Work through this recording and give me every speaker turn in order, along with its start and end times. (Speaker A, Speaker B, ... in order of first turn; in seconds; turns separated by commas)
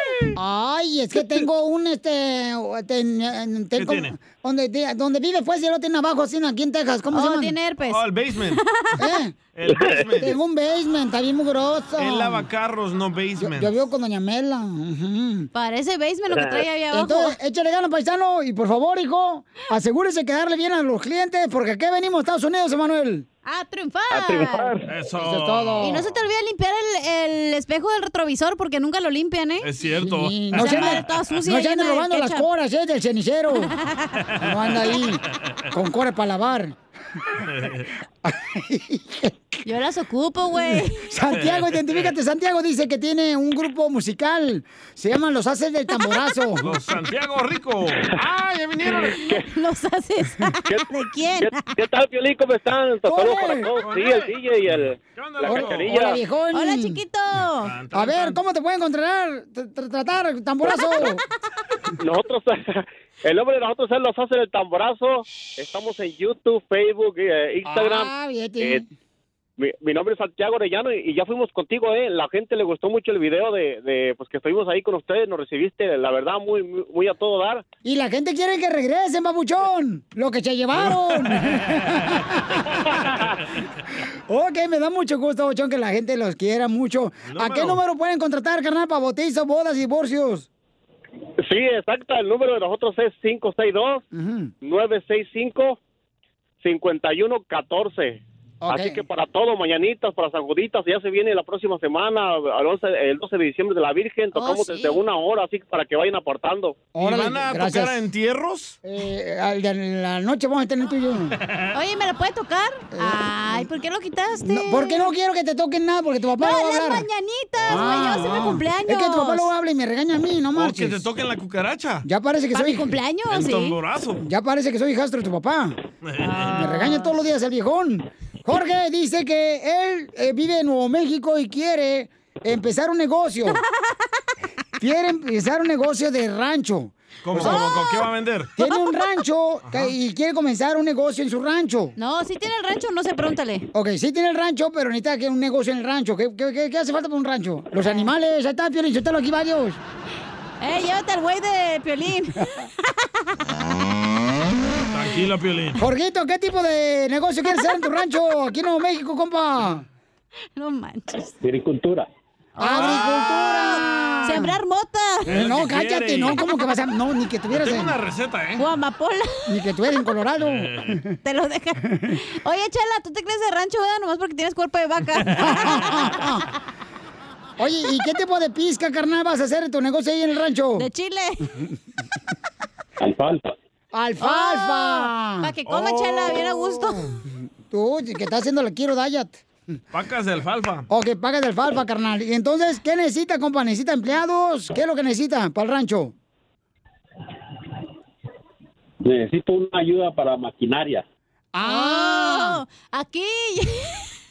Speaker A: 0.4-7.6, Speaker B: 3.8-4.2, Speaker C: 7.1-9.0, Speaker B: 7.9-8.6, Speaker A: 9.0-9.3, Speaker B: 9.6-10.3, Speaker D: 9.7-10.0, Speaker A: 10.2-12.5, Speaker B: 12.0-13.8, Speaker A: 13.4-15.5, Speaker C: 15.5-17.4, Speaker D: 16.3-16.6, Speaker A: 16.9-23.3, Speaker C: 23.4-24.8, Speaker D: 24.1-24.9, Speaker B: 24.9-25.9, Speaker A: 25.2-26.1, Speaker C: 25.8-29.7, Speaker B: 29.6-31.0, Speaker A: 30.0-33.7, Speaker C: 30.5-32.5, Speaker C: 33.6-34.2, Speaker A: 34.4-36.8, Speaker B: 37.5-37.9, Speaker A: 38.2-39.4, Speaker C: 39.6-41.1, Speaker A: 41.0-46.8, Speaker C: 45.9-46.3, Speaker B: 46.6-49.3, Speaker C: 48.9-51.8, Speaker E: 51.4-56.2, Speaker A: 53.0-53.7, Speaker B: 53.8-56.0, Speaker A: 55.5-57.0, Speaker C: 56.5-57.8, Speaker B: 57.6-58.4, Speaker A: 57.9-61.2, Speaker E: 62.0-68.8, Speaker A: 67.7-68.9, Speaker E: 69.6-77.6, Speaker A: 77.8-82.9, Speaker B: 80.8-81.3, Speaker A: 84.3-90.5, Speaker B: 87.3-87.8, Speaker E: 91.4-94.0, Speaker A: 94.1-94.5, Speaker E: 94.6-95.8, Speaker E: 96.6-106.9, Speaker A: 98.6-99.0, Speaker C: 104.3-105.1, Speaker A: 107.0-108.0, Speaker B: 107.0-108.8, Speaker A: 108.8-111.4, Speaker C: 111.7-115.1, Speaker A: 112.9-113.7, Speaker A: 114.5-117.1, Speaker C: 116.4-119.5, Speaker B: 117.7-118.5, Speaker A: 117.7-121.0, Speaker B: 120.5-122.1, Speaker A: 122.0-123.0, Speaker C: 122.5-123.8, Speaker B: 123.3-124.2, Speaker A: 124.2-125.8, Speaker B: 126.0-126.7, Speaker C: 126.2-127.0, Speaker A: 126.5-133.6, Speaker A: 134.8-137.7, Speaker B: 137.2-138.5, Speaker C: 137.3-138.1, Speaker A: 138.6-141.9, Speaker C: 138.6-139.0, Speaker B: 139.7-139.9, Speaker C: 142.0-143.7, Speaker A: 143.7-149.8, Speaker C: 147.8-148.1, Speaker C: 150.6-153.3, Speaker B: 154.8-155.8, Speaker A: 155.8-159.8, Speaker C: 160.6-161.3, Speaker D: 161.4-162.1, Speaker C: 162.6-165.3, Speaker A: 162.6-164.6, Speaker B: 162.7-163.1, Speaker B: 165.3-166.4, Speaker A: 165.3-168.0, Speaker B: 167.5-168.6, Speaker C: 168.6-169.6, Speaker A: 169.5-171.2, Speaker C: 171.2-176.3, Speaker A: 175.4-176.4, Speaker A: 177.6-180.9, Speaker C: 180.8-181.5, Speaker D: 183.0-183.5, Speaker A: 183.9-185.5, Speaker C: 184.2-187.1, Speaker B: 185.7-187.1, Speaker A: 187.7-189.4, Speaker B: 189.9-190.9, Speaker A: 190.9-196.1, Speaker D: 199.0-201.0, Speaker A: 201.5-202.6, Speaker C: 201.6-204.1